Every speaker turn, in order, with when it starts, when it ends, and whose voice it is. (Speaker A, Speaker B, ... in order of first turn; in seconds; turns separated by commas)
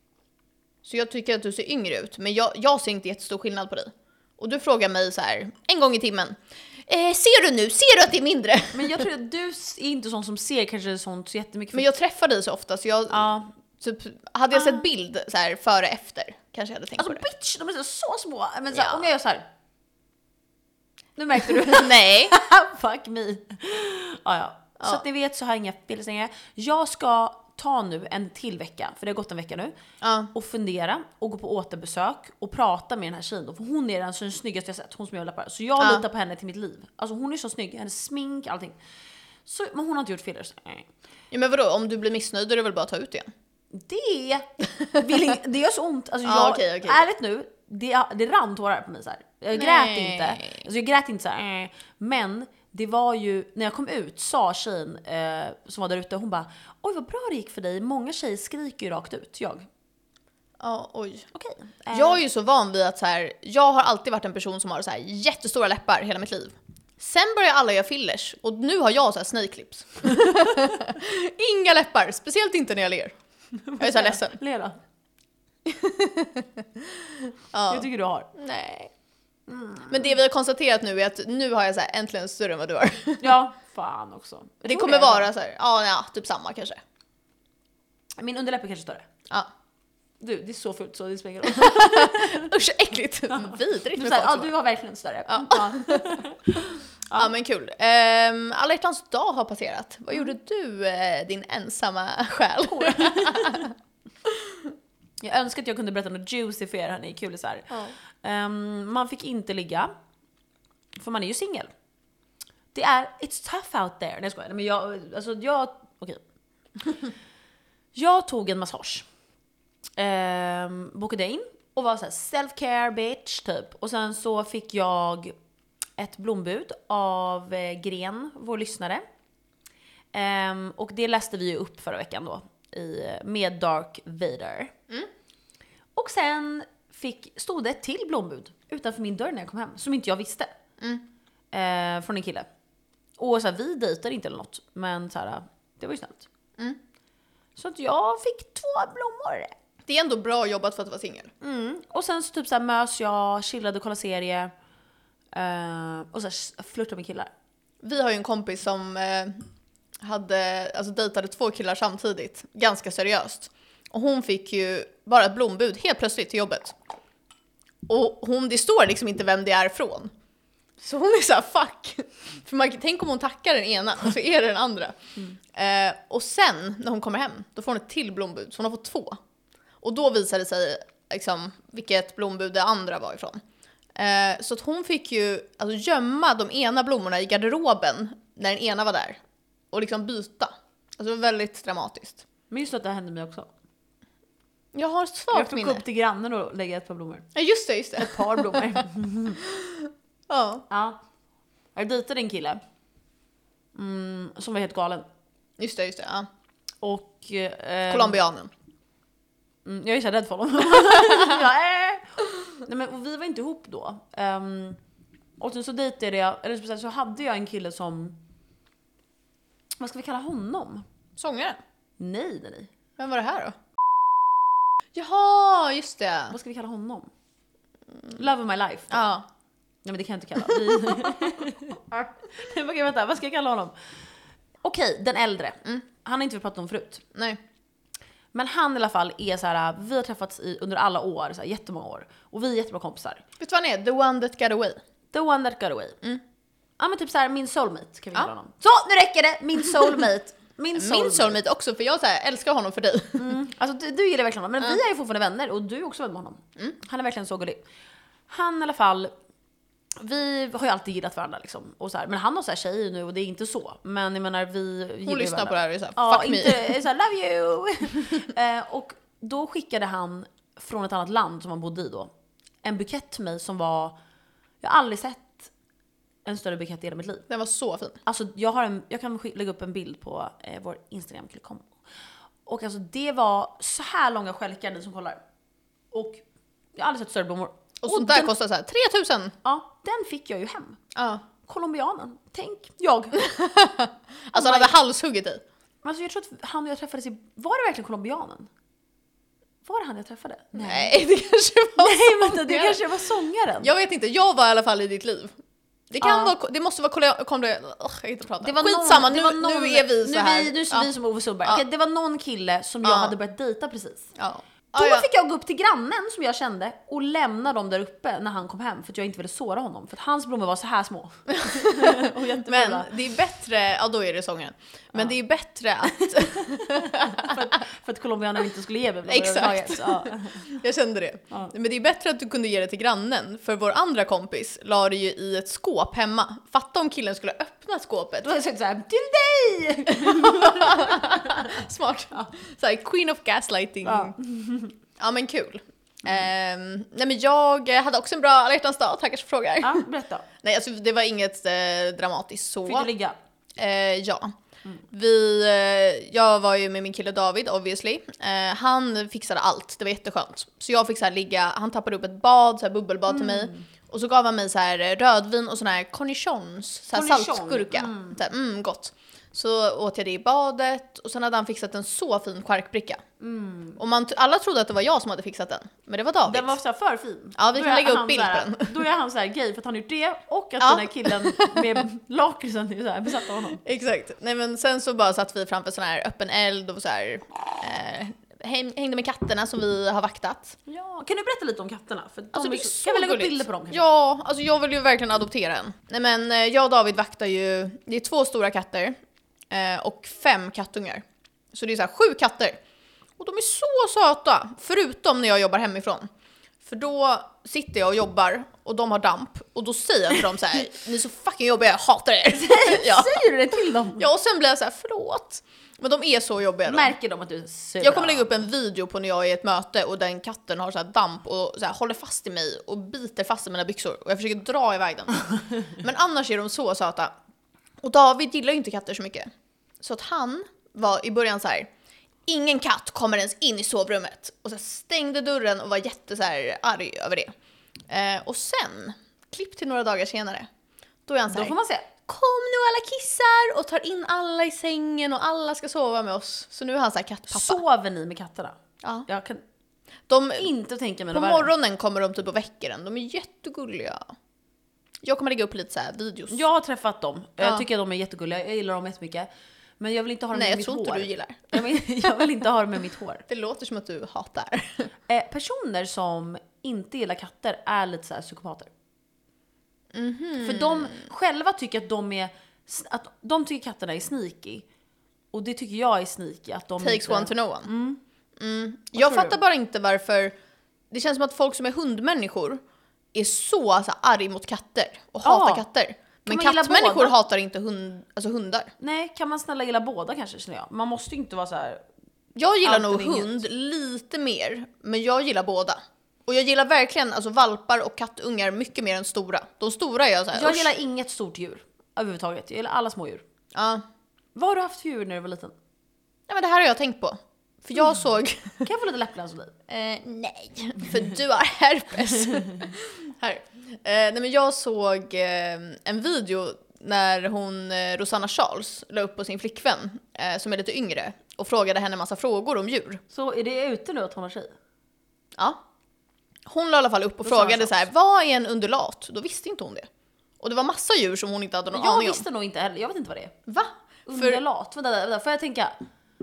Speaker A: 0.8-9.1, Speaker B: 8.7-11.9, Speaker A: 11.7-17.2, Speaker B: 13.1-13.5, Speaker B: 14.5-14.8, Speaker B: 17.0-19.4, Speaker A: 18.7-19.1, Speaker B: 21.1-29.8, Speaker A: 21.4-22.3, Speaker A: 30.0-30.3, Speaker B: 30.3-38.8, Speaker B: 39.5-40.9, Speaker A: 41.3-43.3, Speaker B: 43.7-59.6, Speaker A: 46.2-47.0, Speaker A: 49.5-50.6, Speaker A: 60.6-61.3, Speaker B: 61.3-62.2, Speaker A: 61.9-73.1, Speaker B: 73.6-74.8, Speaker A: 73.8-74.4, Speaker A: 75.7-78.9, Speaker B: 77.7-78.3, Speaker B: 79.5-80.0, Speaker A: 79.9-83.3, Speaker B: 83.2-85.3, Speaker A: 84.6-86.8, Speaker B: 88.2-89.1, Speaker B: 90.2-92.5, Speaker A: 91.4-94.5, Speaker B: 93.3-97.3, Speaker A: 95.3-96.2, Speaker A: 97.1-103.7, Speaker B: 102.7-103.7, Speaker A: 104.2-104.6, Speaker B: 105.2-109.9, Speaker B: 111.0-111.7, Speaker B: 112.7-116.2, Speaker B: 116.8-117.1, Speaker B: 117.9-119.0, Speaker B: 120.0-125.3, Speaker B: 126.0-129.0, Speaker B: 130.1-134.7, Speaker B: 135.9-140.5, Speaker A: 140.8-141.0, Speaker B: 141.5-142.5, Speaker B: 143.2-146.3, Speaker B: 147.6-149.5, Speaker A: 149.8-151.3, Speaker B: 151.4-154.5, Speaker B: 155.3-157.3, Speaker A: 157.8-159.4, Speaker A: 160.0-166.8, Speaker A: 167.9-170.1, Speaker A: 170.8-175.0, Speaker A: 175.5-179.2, Speaker A: 179.8-183.4, Speaker A: 183.9-189.2, Speaker A: 189.7-192.2, Speaker B: 192.5-193.5, Speaker A: 194.7-195.8, Speaker B: 195.3-197.3, Speaker A: 197.3-198.8, Speaker B: 198.0-199.4, Speaker A: 199.4-200.7, Speaker B: 200.7-201.0, Speaker B: 201.7-202.6, Speaker B: 203.7-205.1, Speaker A: 205.6-206.3, Speaker B: 206.8-208.2, Speaker A: 207.9-208.5, Speaker B: 209.6-214.8, Speaker A: 211.0-211.2, Speaker B: 215.4-218.2, Speaker B: 219.8-220.8, Speaker A: 221.2-221.6, Speaker B: 222.0-222.7, Speaker A: 223.0-223.6, Speaker A: 224.9-226.3, Speaker B: 226.3-227.1, Speaker B: 228.1-229.0, Speaker A: 228.9-229.2, Speaker B: 229.8-233.7, Speaker A: 230.5-231.3, Speaker B: 234.6-237.0, Speaker A: 237.1-237.4, Speaker B: 238.3-243.2, Speaker A: 243.4-244.8, Speaker B: 245.1-246.0, Speaker B: 246.8-251.4, Speaker A: 250.7-253.4, Speaker B: 253.1-257.6, Speaker B: 258.3-259.1, Speaker B: 260.0-272.1, Speaker A: 265.1-266.8, Speaker B: 272.6-273.9, Speaker B: 274.6-275.5, Speaker B: 276.2-277.2, Speaker A: 277.3-278.0, Speaker B: 278.0-281.7, Speaker B: 282.4-285.2, Speaker B: 285.9-286.2, Speaker B: 286.7-288.3, Speaker A: 287.8-289.4, Speaker B: 289.4-290.8, Speaker A: 290.9-291.2, Speaker B: 291.4-293.2, Speaker A: 293.1-295.4, Speaker B: 294.3-294.7, Speaker B: 295.8-298.5, Speaker B: 299.6-300.9, Speaker A: 300.5-302.8, Speaker B: 301.8-303.7, Speaker A: 303.6-305.3, Speaker A: 305.9-310.9, Speaker B: 306.0-306.3, Speaker B: 308.4-314.1, Speaker A: 312.8-313.1, Speaker A: 314.1-315.1, Speaker B: 314.7-322.9, Speaker A: 321.4-327.6, Speaker B: 325.9-330.4, Speaker A: 329.1-338.3, Speaker B: 338.2-342.3, Speaker A: 339.9-344.1, Speaker B: 343.8-344.8, Speaker A: 345.0-349.8, Speaker B: 349.6-350.3, Speaker A: 350.4-352.9, Speaker B: 352.6-353.1, Speaker A: 353.6-354.3, Speaker A: 354.9-373.0, Speaker B: 363.1-363.6, Speaker B: 366.9-368.2, Speaker B: 373.2-373.8, Speaker A: 373.8-376.6, Speaker B: 376.2-383.6, Speaker A: 377.4-378.7, Speaker A: 380.6-381.8, Speaker A: 383.6-390.6, Speaker B: 390.7-393.8, Speaker A: 392.3-398.9, Speaker A: 399.5-402.6, Speaker A: 403.2-406.1, Speaker A: 406.6-416.9, Speaker B: 412.4-414.1, Speaker B: 416.6-418.4, Speaker A: 417.8-427.1, Speaker A: 427.8-429.3, Speaker A: 429.8-431.7, Speaker A: 432.3-437.3, Speaker A: 437.9-440.5, Speaker A: 441.1-447.6, Speaker B: 441.3-441.9, Speaker B: 447.3-449.4, Speaker A: 450.1-450.5, Speaker B: 450.4-451.5, Speaker A: 451.1-454.1, Speaker A: 455.0-456.4, Speaker B: 456.3-459.3, Speaker B: 459.8-463.2, Speaker A: 460.3-461.6, Speaker A: 463.3-464.9, Speaker B: 465.1-468.7, Speaker A: 469.9-471.0, Speaker B: 470.4-474.6, Speaker B: 475.3-478.0, Speaker A: 476.8-477.7, Speaker A: 478.4-480.3, Speaker B: 478.9-479.4, Speaker A: 480.9-482.6, Speaker A: 483.1-488.7, Speaker B: 485.2-485.6, Speaker B: 486.2-487.1, Speaker B: 488.8-491.8, Speaker A: 492.4-500.7, Speaker B: 492.6-493.4, Speaker B: 500.3-503.2, Speaker A: 503.5-503.8, Speaker B: 504.4-505.5, Speaker A: 506.3-508.6, Speaker B: 508.6-509.6, Speaker A: 509.7-523.0, Speaker B: 523.1-524.5, Speaker A: 526.5-529.9, Speaker B: 527.2-527.9, Speaker A: 530.4-532.2, Speaker B: 531.7-533.3, Speaker A: 533.5-534.4, Speaker B: 534.1-535.7